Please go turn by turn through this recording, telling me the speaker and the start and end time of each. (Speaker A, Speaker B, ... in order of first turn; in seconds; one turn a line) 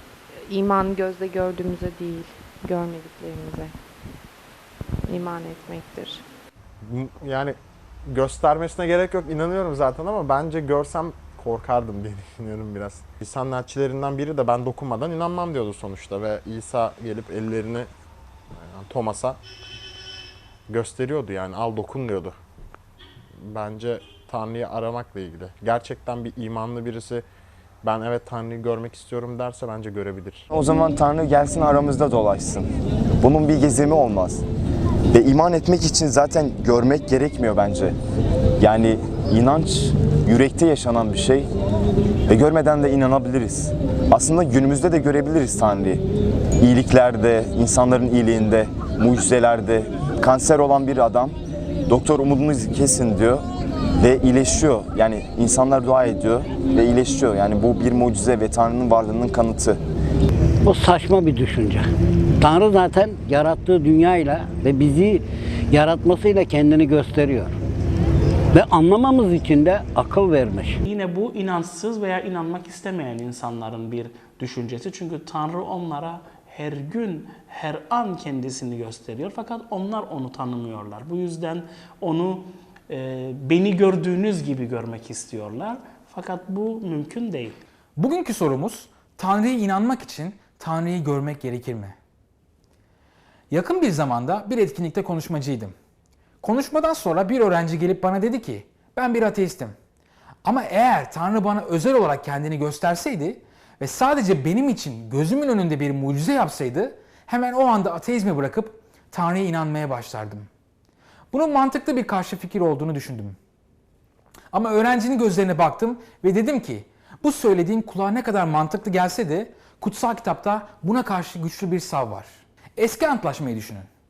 Speaker A: 0.4-3.7
Speaker A: 5.0-6.2
Speaker B: 6.8-17.9
Speaker B: 18.5-19.4
Speaker B: 20.7-22.4
Speaker B: 23.4-27.2
Speaker B: 27.8-30.4
Speaker C: 30.5-34.4
Speaker C: 35.1-38.0
Speaker C: 38.6-41.5
Speaker C: 42.3-46.0
Speaker C: 46.6-51.4
Speaker C: 51.9-53.4
Speaker C: 54.0-59.8
Speaker D: 60.6-61.9
Speaker D: 62.4-67.5
Speaker D: 68.5-70.8
Speaker E: 70.8-87.6
Speaker F: 88.0-92.0
Speaker F: 93.5-95.7
Speaker F: 96.4-99.7
Speaker F: 100.4-110.5
Speaker F: 111.3-113.4
Speaker F: 114.5-123.9